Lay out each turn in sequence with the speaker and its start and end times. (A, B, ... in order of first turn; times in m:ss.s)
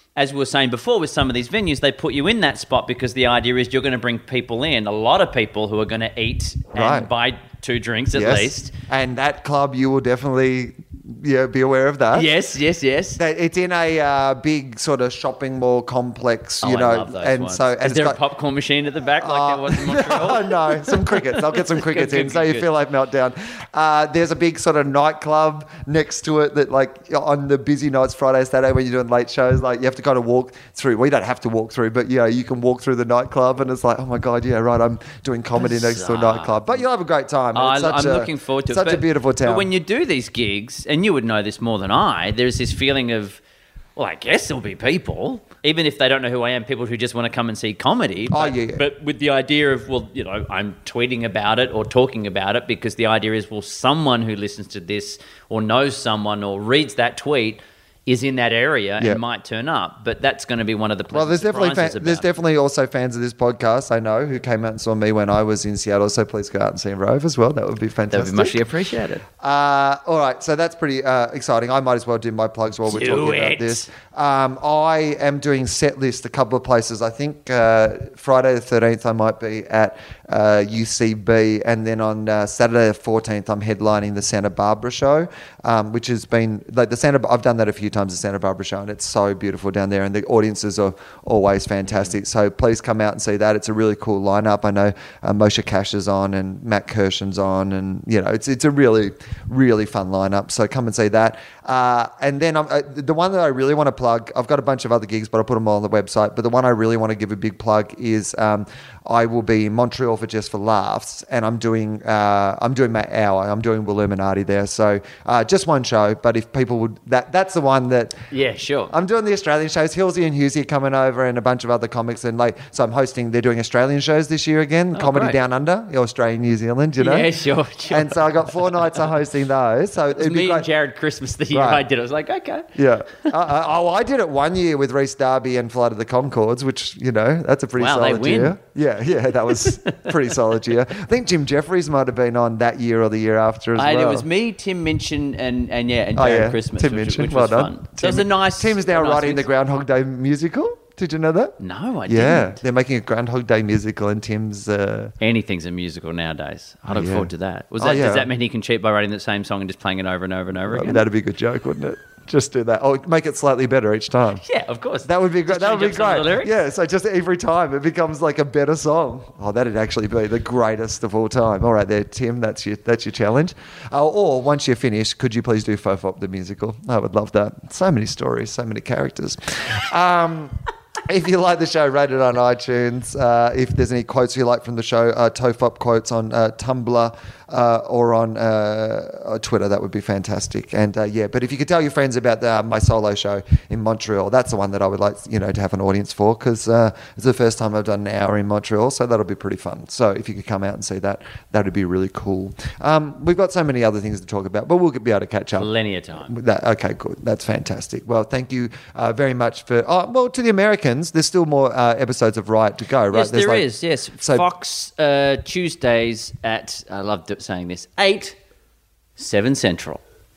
0:00.2-0:08.7 A
0:06.7-0:07.1 B
0:08.2-0:12.3 B
0:12.1-0:13.2 A
0:13.2-0:18.2 B
0:16.6-0:22.7 A
0:19.2-0:39.7 B
0:35.6-0:36.9 A
0:37.5-0:43.4 A
0:44.0-1:02.3 A
0:48.3-0:48.8 B
1:01.1-1:08.6 B
1:08.1-1:09.2 A
1:09.4-1:58.2 B
1:12.9-1:13.9 A
1:58.3-1:58.9 A
1:58.9-2:07.3 B
2:04.9-2:05.4 A
2:07.0-2:09.0 A
2:07.9-2:10.7 B
2:10.2-2:13.3 A
2:11.5-2:11.8 B
2:12.7-2:24.2 B
2:17.8-2:18.6 A
2:19.6-2:20.1 A
2:23.8-2:29.4 A
2:26.2-2:31.6 B
2:31.6-2:32.6 A
2:32.1-2:35.1 B
2:35.2-2:41.0 A
2:36.9-2:38.3 B
2:40.7-2:44.4 B
2:44.4-2:46.5 A
2:45.0-3:25.7 B
3:25.6-3:26.3 A
3:26.3-3:33.7 B
3:33.1-3:38.4 A
3:34.2-3:34.4 B
3:39.2-3:40.0 A